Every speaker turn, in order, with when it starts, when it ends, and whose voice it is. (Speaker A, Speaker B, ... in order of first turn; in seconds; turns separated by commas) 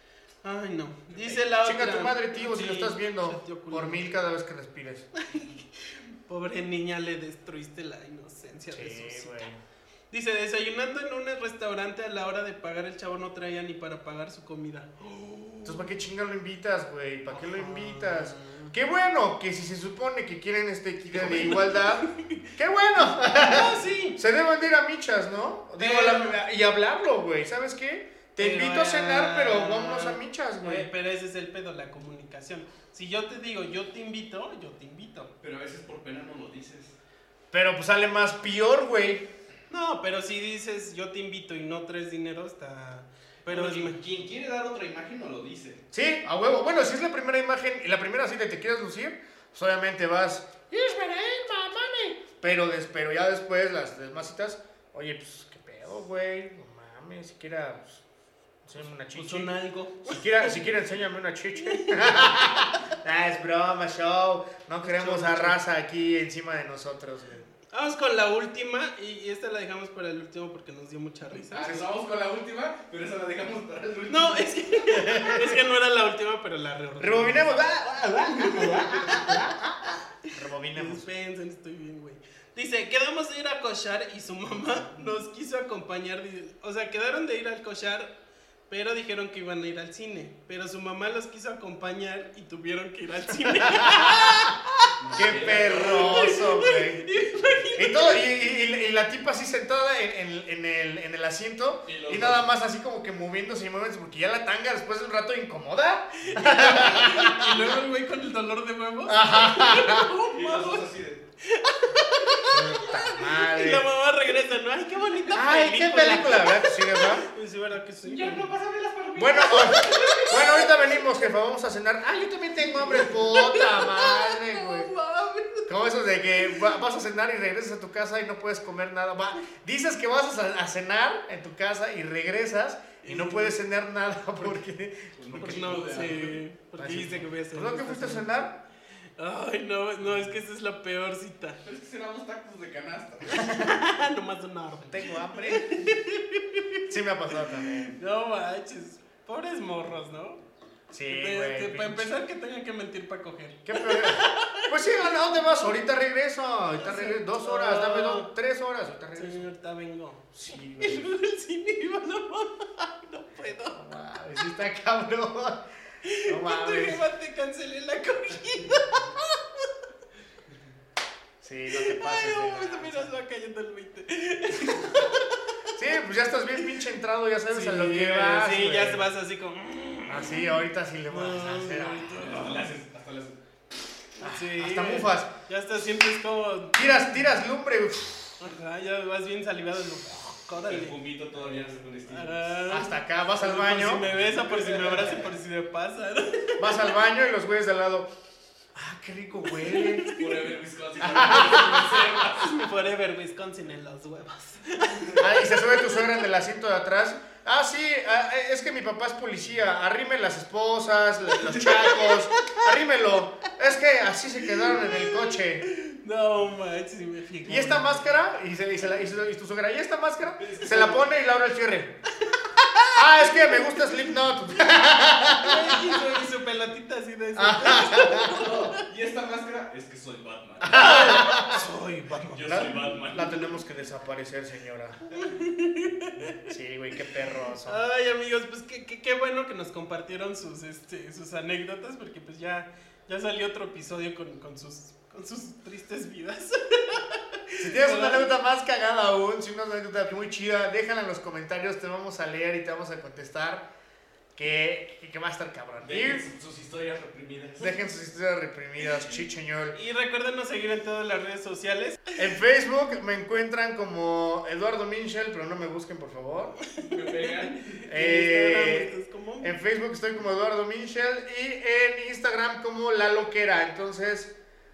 Speaker A: 0.4-4.0, Speaker B: 1.1-1.4, Speaker C: 1.6-5.1, Speaker A: 5.2-9.5, Speaker C: 8.7-9.6, Speaker A: 10.1-15.8, Speaker C: 15.7-30.9, Speaker A: 17.3-18.7, Speaker A: 21.1-22.5, Speaker A: 23.4-24.2, Speaker A: 25.8-26.4, Speaker A: 28.4-35.3, Speaker B: 35.4-37.0, Speaker C: 37.5-39.3, Speaker A: 39.7-44.0, Speaker B: 43.5-45.8, Speaker C: 45.9-58.0, Speaker C: 58.6-67.5, Speaker A: 59.1-60.6, Speaker A: 61.7-62.3, Speaker A: 64.8-65.6, Speaker A: 67.7-71.9, Speaker B: 71.5-74.9, Speaker A: 74.1-77.6, Speaker C: 74.9-75.6, Speaker C: 77.0-81.1, Speaker B: 78.3-79.5, Speaker A: 78.7-79.2, Speaker A: 80.7-88.2, Speaker A: 88.7-98.2, Speaker C: 93.5-94.5, Speaker B: 95.0-96.4, Speaker C: 95.2-97.1, Speaker C: 97.8-107.7, Speaker B: 101.8-102.5, Speaker A: 106.3-110.9, Speaker C: 109.1-110.1, Speaker B: 110.2-111.2, Speaker A: 111.4-118.5, Speaker C: 112.5-113.9, Speaker C: 115.3-117.3, Speaker B: 118.0-120.6, Speaker C: 119.2-124.9, Speaker A: 119.5-120.7, Speaker A: 122.7-125.7, Speaker C: 125.7-135.7, Speaker A: 133.0-133.6, Speaker B: 135.2-136.4, Speaker A: 135.4-138.3, Speaker C: 136.8-138.6, Speaker A: 139.2-141.6, Speaker B: 141.6-143.5, Speaker A: 143.5-146.9, Speaker C: 144.9-145.8, Speaker C: 146.9-148.0, Speaker A: 147.6-150.4, Speaker C: 150.9-152.2, Speaker A: 151.1-155.1, Speaker C: 153.7-159.4, Speaker A: 156.8-158.3, Speaker A: 159.2-163.9, Speaker C: 160.3-161.1, Speaker C: 163.6-165.7, Speaker A: 166.0-169.7, Speaker C: 166.3-167.0, Speaker C: 171.4-173.1, Speaker A: 171.7-175.8, Speaker C: 175.8-179.1, Speaker A: 176.6-176.8, Speaker A: 177.5-182.7, Speaker C: 180.1-182.2, Speaker B: 182.2-183.4, Speaker A: 184.2-186.9, Speaker C: 184.2-185.3, Speaker C: 186.7-188.4, Speaker A: 188.4-191.0, Speaker B: 190.7-192.6, Speaker A: 192.1-196.9, Speaker C: 192.7-194.1, Speaker B: 194.2-195.3, Speaker C: 196.6-198.1, Speaker C: 198.8-200.1, Speaker A: 199.6-200.3, Speaker B: 200.1-202.7, Speaker C: 201.0-202.0, Speaker A: 201.4-206.2, Speaker C: 205.2-215.6, Speaker A: 211.6-212.7, Speaker A: 214.5-218.1, Speaker C: 217.4-222.0, Speaker B: 220.4-221.0, Speaker A: 222.2-224.1, Speaker C: 222.9-226.1, Speaker A: 225.2-228.8, Speaker C: 227.3-228.5, Speaker B: 228.2-231.2, Speaker C: 230.6-235.0, Speaker A: 230.7-231.8, Speaker B: 232.2-233.6, Speaker A: 235.1-236.4, Speaker C: 236.5-237.8, Speaker A: 237.6-248.3, Speaker C: 247.6-253.7, Speaker C: 254.3-256.3, Speaker B: 255.8-257.7, Speaker C: 257.6-259.8, Speaker A: 259.7-262.1, Speaker C: 262.2-266.6, Speaker B: 266.8-267.8, Speaker A: 266.8-269.5, Speaker C: 267.9-274.3